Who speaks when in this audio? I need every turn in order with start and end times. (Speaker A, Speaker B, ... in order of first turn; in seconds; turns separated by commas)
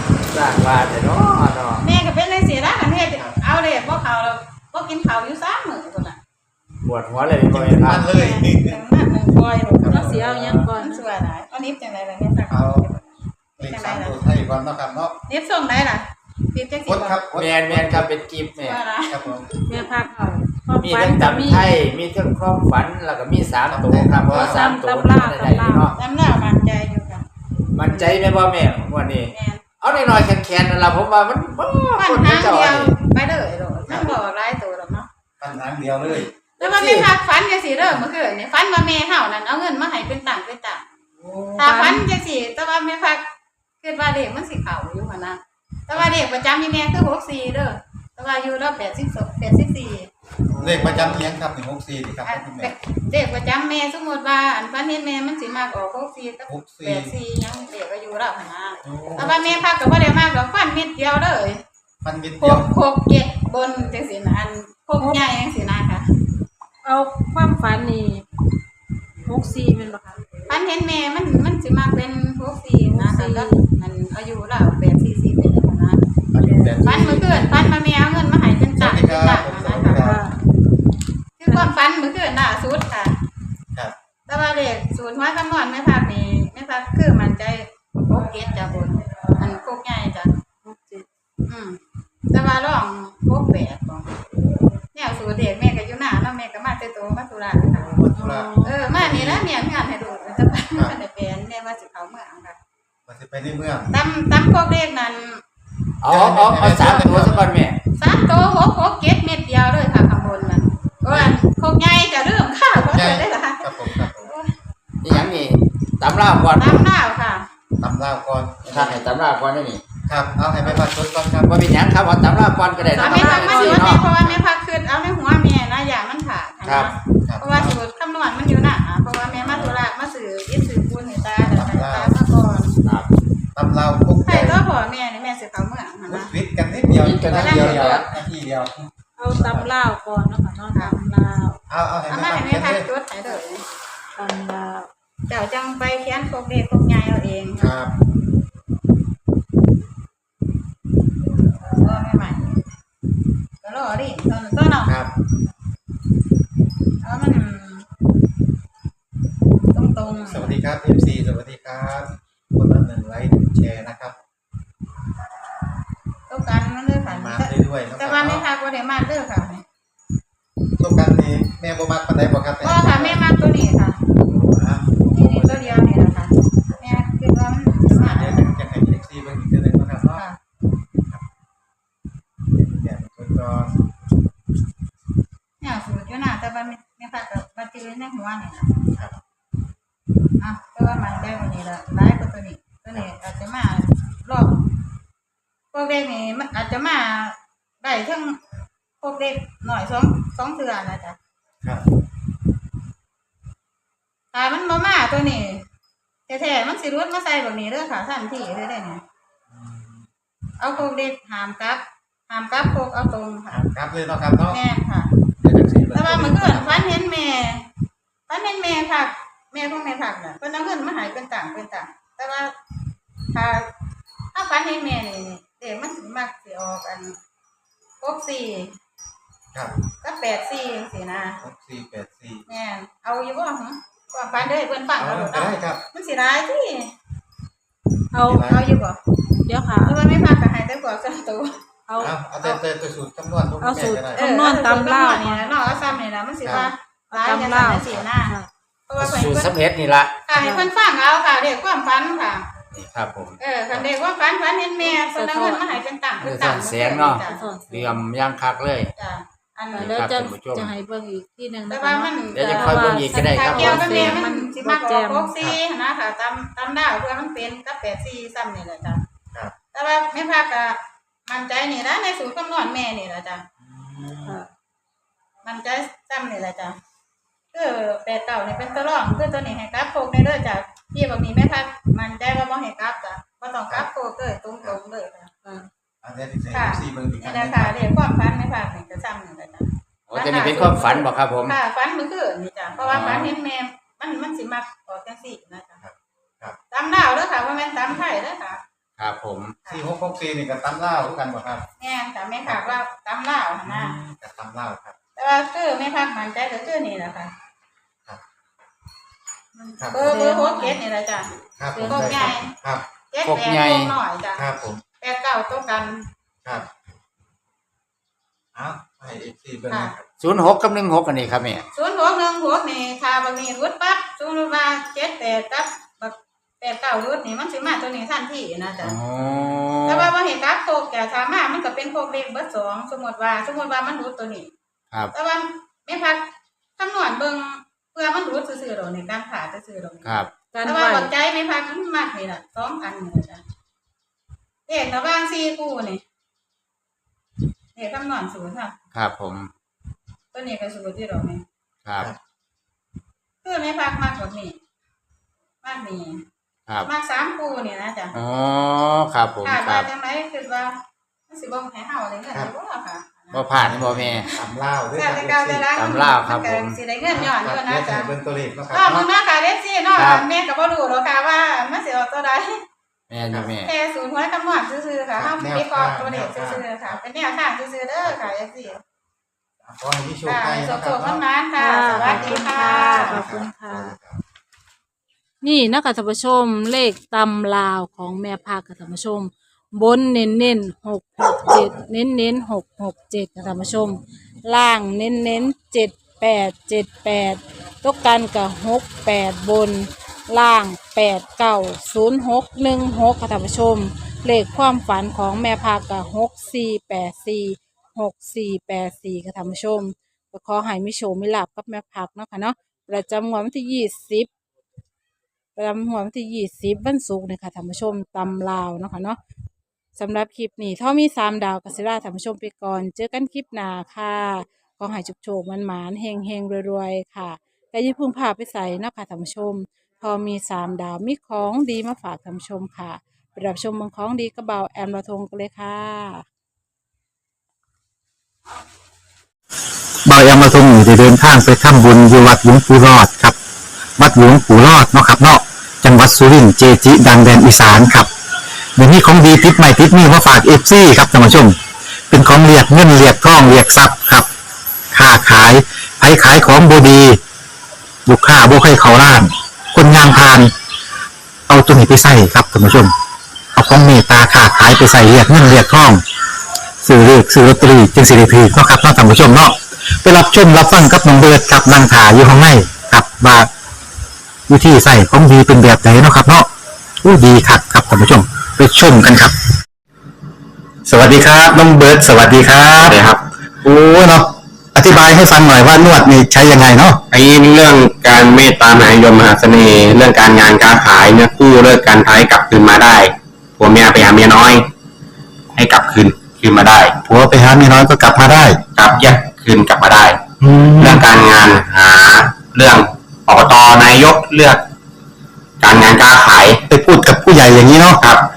Speaker A: 0.3-1.9, Speaker B: 1.8-6.2, Speaker A: 6.8-8.1, Speaker C: 7.5-8.8, Speaker B: 8.1-10.2, Speaker C: 9.8-10.5, Speaker D: 9.9-11.0, Speaker B: 10.8-14.2, Speaker C: 12.5-12.9, Speaker C: 13.6-15.2, Speaker B: 15.3-17.2, Speaker C: 16.9-18.1, Speaker A: 17.3-18.8, Speaker B: 18.6-19.9, Speaker C: 19.1-19.5, Speaker D: 19.7-21.8, Speaker A: 20.8-26.0, Speaker C: 23.7-24.7, Speaker D: 24.3-25.9, Speaker B: 25.9-27.3, Speaker A: 27.7-33.0, Speaker B: 29.3-29.6, Speaker B: 32.0-35.1, Speaker C: 35.4-36.3, Speaker B: 36.1-40.9, Speaker A: 36.6-37.1, Speaker A: 41.2-41.5, Speaker B: 41.6-43.2, Speaker D: 41.6-42.1, Speaker B: 43.8-50.1, Speaker C: 50.6-52.7, Speaker B: 52.2-61.6, Speaker C: 56.5-57.1, Speaker C: 58.9-59.6, Speaker C: 62.0-62.7, Speaker B: 62.4-66.1, Speaker D: 66.8-68.2, Speaker D: 69.3-70.2, Speaker B: 70.5-76.1, Speaker D: 72.9-73.6, Speaker C: 76.3-77.7, Speaker D: 76.4-77.2, Speaker B: 76.8-80.0, Speaker C: 78.8-80.2, Speaker D: 79.9-80.4, Speaker B: 81.4-83.2, Speaker D: 81.5-81.7, Speaker B: 84.3-90.4, Speaker D: 90.6-91.1, Speaker B: 91.5-91.8, Speaker B: 92.3-94.1, Speaker B: 94.9-97.9, Speaker C: 97.6-99.5, Speaker D: 98.1-98.9, Speaker B: 98.6-102.6, Speaker C: 103.1-103.9, Speaker B: 103.9-105.4, Speaker A: 106.0-107.8, Speaker C: 106.1-107.5, Speaker B: 108.0-114.5, Speaker C: 112.9-114.3, Speaker A: 115.0-116.8, Speaker B: 116.5-117.5, Speaker C: 117.8-119.0, Speaker A: 118.6-119.8, Speaker C: 120.1-121.5, Speaker A: 121.5-124.3, Speaker B: 122.9-132.8, Speaker C: 123.0-123.4, Speaker D: 123.1-123.9, Speaker A: 126.7-126.9, Speaker C: 127.3-127.8, Speaker A: 129.4-129.8, Speaker C: 131.4-132.2, Speaker C: 133.6-134.6, Speaker B: 134.2-136.3, Speaker C: 136.1-139.7, Speaker A: 136.9-138.1, Speaker B: 137.3-138.1, Speaker D: 139.2-141.6, Speaker C: 141.7-142.9, Speaker B: 142.1-143.7, Speaker D: 144.2-144.9, Speaker B: 145.3-147.8, Speaker C: 147.6-147.9, Speaker B: 151.7-152.6, Speaker B: 153.6-155.0, Speaker C: 154.9-155.1, Speaker B: 157.0-157.9, Speaker B: 159.7-160.6, Speaker C: 160.2-164.2, Speaker B: 166.3-169.6, Speaker C: 167.1-168.4, Speaker C: 170.8-173.2, Speaker B: 172.6-174.0, Speaker C: 174.2-175.9, Speaker B: 175.1-178.4, Speaker C: 177.9-180.2, Speaker C: 182.5-183.8, Speaker B: 185.6-188.8, Speaker B: 190.4-194.6, Speaker B: 195.7-198.4, Speaker B: 199.0-201.2, Speaker B: 204.3-205.7, Speaker B: 206.3-209.0, Speaker C: 209.5-210.1, Speaker B: 210.6-213.7, Speaker C: 213.5-214.6, Speaker B: 214.5-215.1, Speaker C: 215.4-216.9, Speaker B: 215.9-217.7, Speaker B: 218.3-222.5, Speaker B: 223.3-223.7, Speaker B: 224.3-227.2, Speaker B: 228.0-228.8, Speaker B: 230.0-231.4, Speaker C: 231.4-232.4, Speaker B: 232.5-236.9, Speaker C: 235.0-235.8, Speaker D: 238.1-238.5, Speaker C: 238.3-238.6, Speaker B: 238.4-239.0, Speaker D: 239.5-240.0, Speaker B: 239.8-241.5, Speaker D: 241.9-242.2, Speaker C: 242.0-244.2, Speaker D: 243.6-245.6, Speaker B: 244.2-248.3, Speaker D: 246.5-248.5, Speaker B: 248.9-249.5, Speaker A: 249.0-250.1, Speaker B: 250.3-252.5, Speaker D: 250.4-250.7, Speaker A: 252.7-253.9, Speaker B: 253.4-257.5, Speaker D: 254.8-255.8, Speaker A: 256.2-258.9, Speaker D: 257.2-258.0, Speaker B: 259.0-260.0, Speaker D: 259.7-265.3, Speaker A: 259.8-260.7, Speaker B: 261.7-269.0, Speaker A: 262.3-264.2, Speaker B: 269.7-273.4, Speaker C: 273.6-274.3, Speaker B: 275.4-276.8, Speaker B: 277.5-285.6, Speaker C: 286.0-287.7, Speaker B: 286.5-295.8, Speaker A: 290.1-291.6, Speaker A: 292.9-293.3, Speaker C: 295.8-296.6, Speaker B: 296.7-298.6, Speaker A: 299.0-299.6, Speaker C: 299.7-301.6, Speaker B: 301.8-304.0, Speaker C: 303.6-304.9, Speaker B: 305.2-307.3, Speaker D: 309.6-310.8, Speaker C: 309.8-310.2, Speaker B: 309.9-311.3, Speaker C: 311.6-312.8, Speaker D: 311.7-312.4, Speaker B: 311.8-312.5, Speaker B: 313.1-314.4, Speaker A: 313.2-313.9, Speaker C: 314.4-314.8, Speaker B: 315.0-316.1, Speaker C: 318.6-320.0, Speaker B: 319.7-319.9, Speaker A: 320.2-321.6, Speaker B: 321.7-329.0, Speaker A: 328.8-330.1, Speaker B: 329.9-334.5, Speaker B: 335.1-336.2, Speaker B: 336.8-343.4, Speaker A: 340.1-340.3, Speaker D: 340.5-341.1, Speaker B: 344.7-346.0, Speaker B: 347.8-348.8, Speaker A: 348.9-349.5, Speaker B: 350.3-351.4, Speaker A: 351.9-352.1, Speaker B: 353.4-354.6, Speaker B: 355.6-356.2, Speaker B: 356.8-358.2, Speaker A: 358.1-359.9, Speaker B: 359.4-363.5, Speaker A: 363.3-364.3, Speaker C: 363.6-365.7, Speaker B: 365.0-368.1, Speaker A: 365.8-366.8, Speaker C: 367.1-369.1, Speaker B: 368.7-372.6, Speaker A: 370.0-370.2, Speaker A: 373.1-373.7, Speaker B: 373.6-378.8, Speaker C: 375.1-377.0, Speaker C: 378.1-378.3, Speaker C: 379.6-381.2, Speaker B: 380.2-383.3, Speaker D: 381.6-384.0, Speaker C: 382.1-384.2, Speaker D: 385.4-414.3, Speaker D: 415.6-419.2, Speaker D: 420.0-436.2, Speaker E: 440.1-443.4, Speaker E: 444.0-448.1, Speaker E: 448.8-451.6, Speaker E: 452.1-454.3, Speaker E: 454.9-457.2, Speaker E: 458.1-460.5, Speaker E: 461.5-462.9, Speaker E: 463.5-466.0, Speaker E: 466.8-473.5, Speaker E: 474.5-476.5, Speaker E: 477.0-479.4, Speaker E: 480.9-482.9, Speaker F: 482.9-483.2, Speaker E: 483.6-487.0, Speaker F: 487.1-494.6, Speaker F: 495.6-497.0, Speaker E: 497.1-498.6, Speaker F: 498.8-500.2, Speaker E: 500.4-500.8, Speaker F: 500.8-504.6, Speaker F: 505.6-506.6, Speaker E: 506.7-508.0, Speaker F: 508.0-508.2